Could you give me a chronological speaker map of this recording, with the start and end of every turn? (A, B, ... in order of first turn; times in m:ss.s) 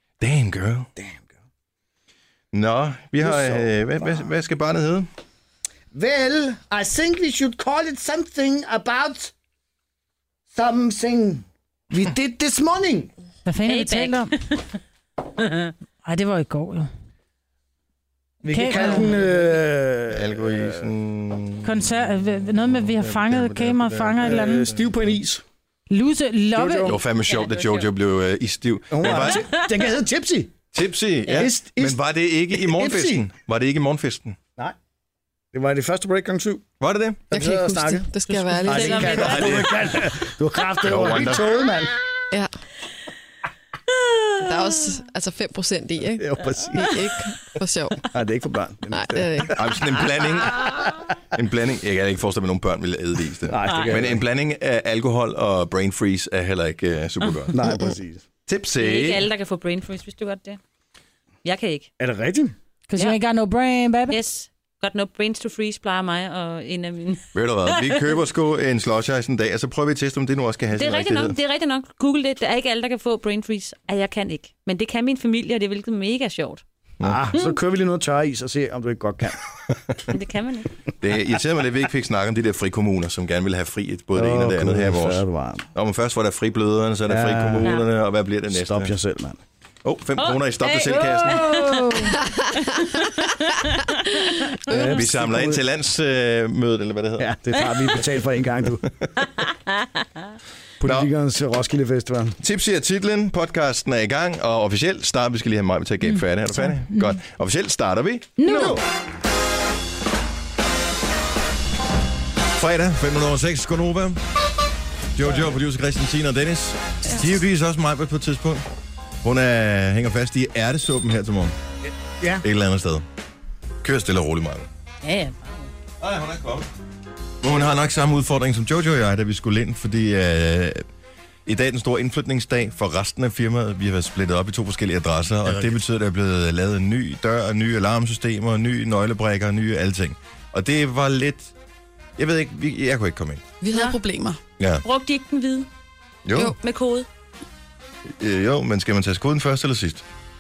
0:00.2-0:00.9 A
0:01.0-0:01.3 B
0:02.5-0:05.1 A
0:03.2-0:04.3 B
0:05.9-0:09.3 B
0:10.5-0:13.1 B
0:13.5-0:14.3 C
0:13.7-0:14.6 D
0:15.4-0:15.7 D
0:16.0-0:16.9 C
0:18.4-0:20.9 B
0:18.5-0:19.1 C
0:20.1-0:21.9 A
0:21.6-0:24.7 C
0:22.5-0:24.9 A
0:24.2-0:25.4 B
0:25.9-0:26.9 C
0:26.6-0:27.0 B
0:26.9-0:29.6 A
0:27.2-0:27.9 D
0:28.9-0:30.5 B
0:29.0-0:29.7 D
0:30.7-0:34.4 A
0:31.3-0:33.3 B
0:35.5-0:36.7 B
0:36.8-0:37.3 A
0:37.3-0:42.0 B
0:37.3-0:39.3 E
0:38.6-0:39.8 D
0:39.1-0:40.0 A
0:40.8-0:41.6 A
0:43.9-0:44.8 D
0:44.4-0:48.1 E
0:46.2-0:46.9 B
0:48.1-0:50.9 B
0:48.9-0:49.6 E
0:49.6-0:50.8 A
0:51.3-0:57.8 A
0:53.5-0:54.2 B
0:53.6-0:54.0 D
0:57.5-0:58.3 B
0:58.5-0:59.3 A
0:58.8-1:00.6 D
1:01.4-1:01.9 D
1:02.0-1:02.6 B
1:02.9-1:04.2 C
1:04.1-1:08.2 D
1:07.3-1:11.4 A
1:10.7-1:16.6 D
1:17.0-1:19.4 B
1:19.7-1:20.0 A
1:20.1-1:20.8 D
1:21.0-1:28.9 A
1:24.1-1:25.7 B
1:27.1-1:27.8 B
1:28.5-1:29.4 B
1:29.8-1:31.5 A
1:30.2-1:34.6 D
1:31.2-1:32.2 B
1:34.7-1:35.6 B
1:34.8-1:37.3 A
1:37.2-1:38.8 B
1:39.4-1:39.9 D
1:40.8-1:42.4 B
1:40.8-1:41.1 A
1:42.4-1:48.4 A
1:46.0-1:47.1 C
1:48.4-1:48.8 C
1:48.4-1:48.8 B
1:52.6-1:54.2 A
1:55.2-1:58.6 A
1:59.2-2:01.6 A
2:02.1-2:02.4 B
2:02.4-2:03.0 A
2:03.8-2:04.7 A
2:05.0-2:05.7 D
2:06.0-2:06.7 A
2:07.4-2:10.8 A
2:11.5-2:21.5 A
2:15.4-2:15.8 B
2:22.2-2:23.5 A
2:23.6-2:24.4 E
2:23.7-2:24.0 D
2:24.8-2:25.7 D
2:26.2-2:26.6 A
2:26.6-2:27.1 D
2:28.1-2:30.0 A